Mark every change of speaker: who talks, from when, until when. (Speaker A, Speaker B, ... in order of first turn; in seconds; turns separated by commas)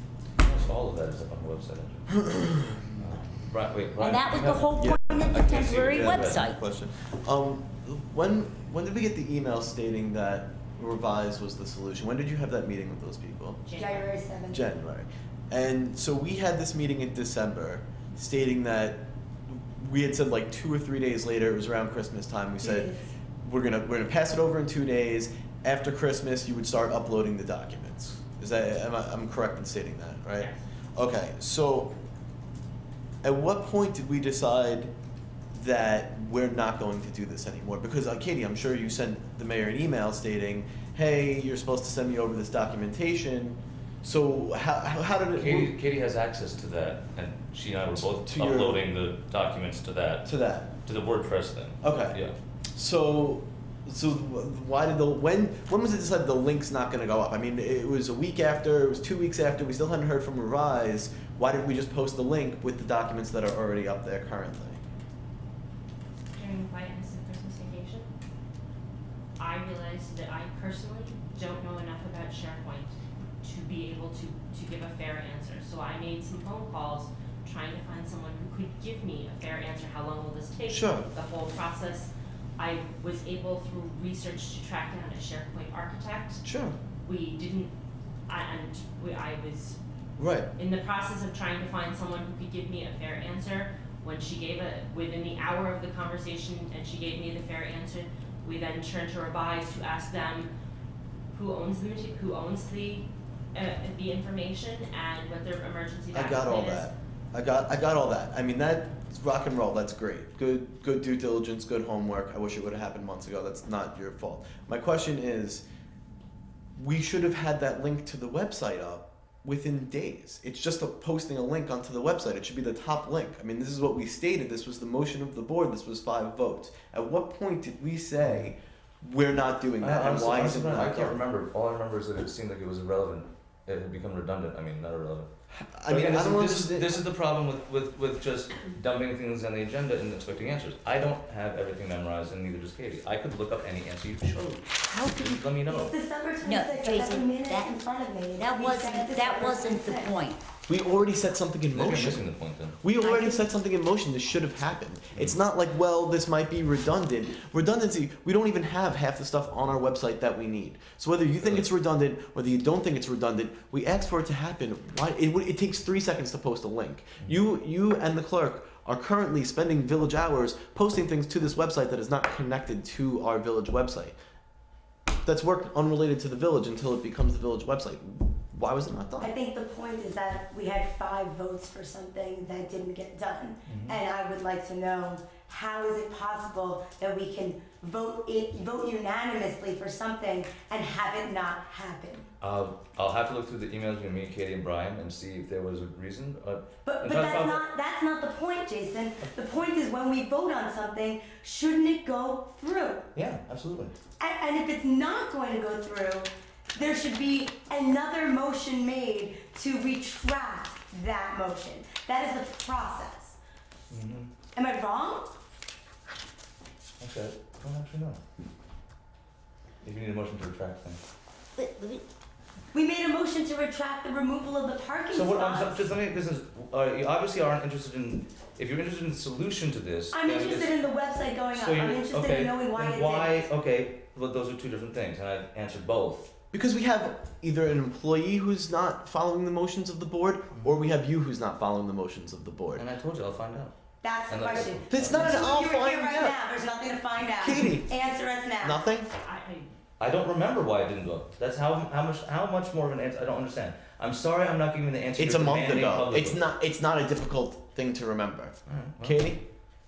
Speaker A: 0.4-2.2, Speaker B: 2.2-2.8, Speaker A: 3.0-4.7, Speaker C: 4.0-6.6, Speaker B: 4.8-13.6, Speaker A: 5.3-6.4, Speaker D: 13.6-14.2, Speaker E: 13.8-14.6, Speaker B: 14.5-22.9, Speaker E: 22.6-23.1, Speaker B: 23.4-31.9, Speaker D: 30.3-30.6, Speaker B: 33.2-34.9, Speaker B: 35.5-45.7, Speaker A: 45.3-50.3, Speaker B: 48.0-48.8, Speaker B: 50.2-50.7, Speaker A: 50.8-52.3, Speaker B: 51.8-52.2, Speaker B: 52.7-64.8, Speaker D: 66.3-68.1, Speaker D: 69.4-86.4, Speaker B: 80.7-81.1, Speaker B: 86.4-86.8, Speaker D: 87.0-87.7, Speaker D: 88.3-89.8, Speaker B: 90.2-90.5, Speaker D: 90.6-100.5, Speaker D: 101.3-106.9, Speaker B: 106.1-115.6, Speaker B: 116.8-131.2, Speaker A: 128.2-128.5, Speaker A: 129.8-135.3, Speaker B: 135.5-137.0, Speaker A: 135.9-145.9, Speaker E: 145.7-150.1, Speaker C: 146.4-147.8, Speaker C: 148.3-150.4, Speaker B: 150.7-152.2, Speaker A: 151.7-152.8, Speaker B: 152.8-174.2, Speaker E: 153.0-153.4, Speaker A: 161.4-161.7, Speaker B: 175.2-179.3, Speaker E: 179.2-192.3, Speaker A: 183.7-184.0, Speaker A: 192.4-197.7, Speaker E: 196.8-203.1, Speaker A: 203.1-203.9, Speaker E: 204.2-213.4, Speaker A: 213.9-214.3, Speaker E: 214.5-215.3, Speaker A: 217.0-218.2, Speaker A: 219.8-221.0, Speaker C: 221.6-222.0, Speaker E: 222.7-225.8, Speaker A: 225.1-230.8, Speaker E: 230.1-233.5, Speaker A: 231.5-236.3, Speaker B: 236.5-242.8, Speaker A: 240.5-240.8, Speaker A: 242.7-243.7, Speaker E: 244.0-248.8, Speaker A: 244.2-245.4, Speaker B: 244.9-246.4, Speaker B: 247.4-247.9, Speaker B: 248.6-249.1, Speaker D: 249.2-249.7, Speaker A: 250.0-256.4, Speaker B: 255.2-259.4, Speaker A: 258.7-259.2